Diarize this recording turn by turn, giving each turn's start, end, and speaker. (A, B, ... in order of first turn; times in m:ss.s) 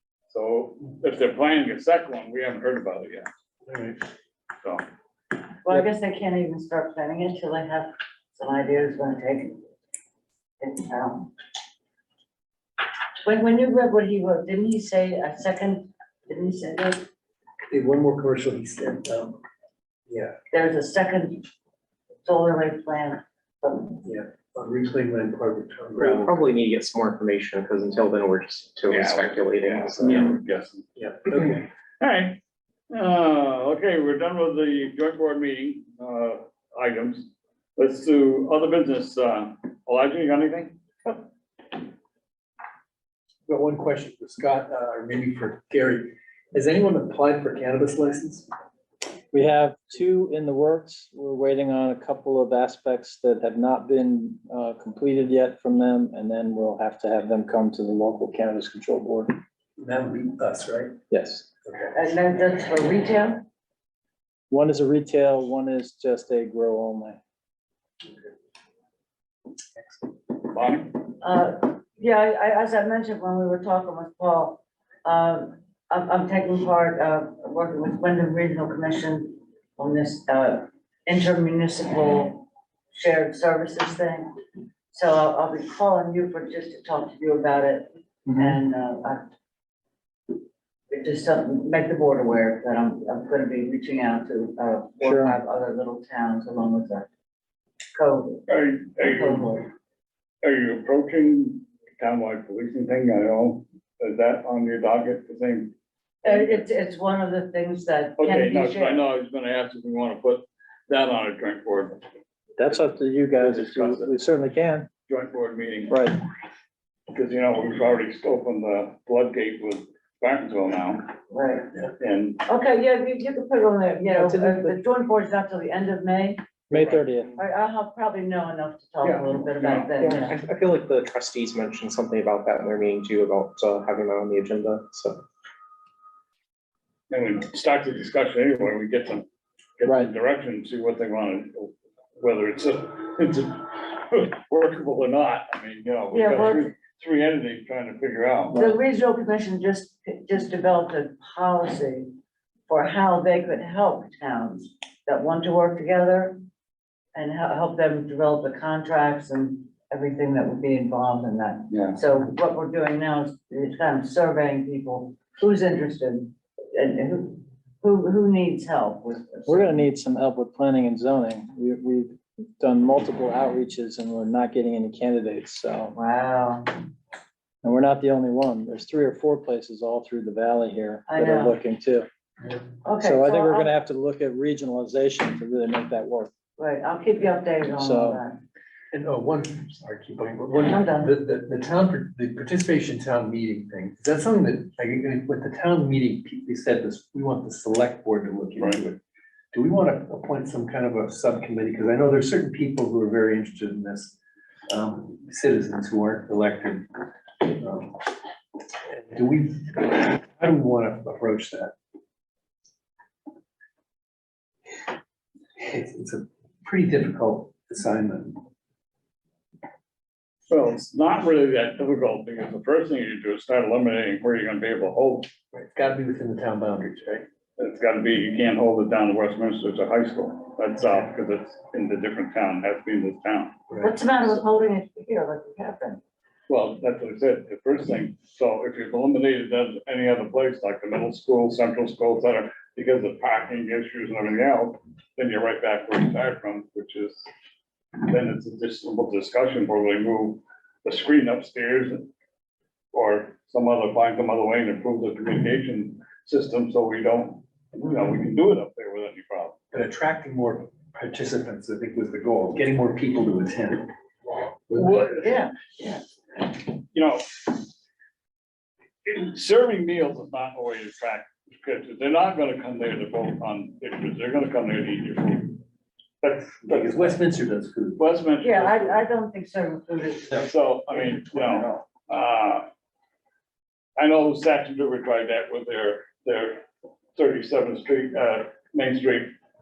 0:00.3-0:03.3 A
0:03.7-0:04.0 B
0:05.6-0:09.6 C
0:10.6-0:11.3 C
0:13.2-0:17.0 C
0:17.7-0:19.4 B
0:20.1-0:20.4 B
0:20.5-0:21.4 C
0:22.2-0:24.0 C
0:24.0-0:26.5 B
0:26.0-0:30.4 D
0:28.9-0:30.8 A
0:31.0-0:31.7 B
0:32.0-0:32.4 A
0:32.9-0:40.8 A
0:43.4-0:48.5 B
0:49.3-0:59.3 E
0:59.8-1:01.0 B
1:01.1-1:01.4 E
1:01.6-1:01.9 B
1:01.9-1:03.4 C
1:04.5-1:07.2 E
1:10.5-1:11.0 A
1:11.1-1:24.3 C
1:24.9-1:29.2 C
1:28.2-1:28.6 E
1:30.9-1:37.1 C
1:35.0-1:35.4 E
1:37.9-1:38.4 C
1:38.5-1:39.5 A
1:39.0-1:39.7 C
1:40.4-1:45.7 A
1:46.2-1:49.0 C
1:46.2-1:46.6 A
1:48.2-1:52.0 A
1:52.6-1:54.9 E
1:53.4-1:54.1 A
1:55.1-1:56.0 A
1:55.9-1:56.2 E
1:57.1-2:01.1 A
2:01.3-2:01.7 C
2:02.0-2:02.4 A
2:02.4-2:06.6 C
2:06.7-2:07.4 E
2:07.4-2:10.3 C
2:09.0-2:09.3 B
2:09.6-2:09.9 A
2:10.0-2:15.2 D
2:17.1-2:19.2 A
2:19.8-2:28.6 A
2:19.8-2:20.1 E
2:26.1-2:26.7 C
2:28.5-2:28.8 E
2:28.5-2:32.1 C
2:32.7-2:36.4 C
2:37.1-2:49.8 C
2:41.7-2:42.0 A
2:49.5-2:55.9 E
2:55.9-2:56.7 C
2:57.6-3:02.1 E
3:01.1-3:01.6 C
3:02.8-3:03.7 C
3:03.0-3:06.3 E
3:06.6-3:08.4 C
3:07.7-3:08.2 E
3:08.9-3:19.0 B
3:10.6-3:11.1 C
3:19.5-3:24.2 B
3:24.7-3:28.1 B
3:28.8-3:31.7 B
3:35.6-3:38.4 B
3:40.5-3:45.3 A
3:45.5-3:47.2 B
3:47.6-3:53.6 A
3:53.7-3:54.0 B
3:53.8-3:56.0 C
3:56.5-4:07.3 A
4:08.0-4:12.1 A
4:12.9-4:19.6 A
4:19.7-4:23.9 B
4:24.7-4:25.0 B
4:24.7-4:25.3 A
4:25.0-4:25.9 C
4:26.8-4:27.6 A
4:29.0-4:35.6 A
4:36.2-4:37.2 A
4:36.6-4:38.0 B
4:38.0-4:39.0 A
4:38.4-4:40.5 C
4:40.3-4:42.6 A
4:44.0-4:46.6 A
4:47.2-4:49.3 A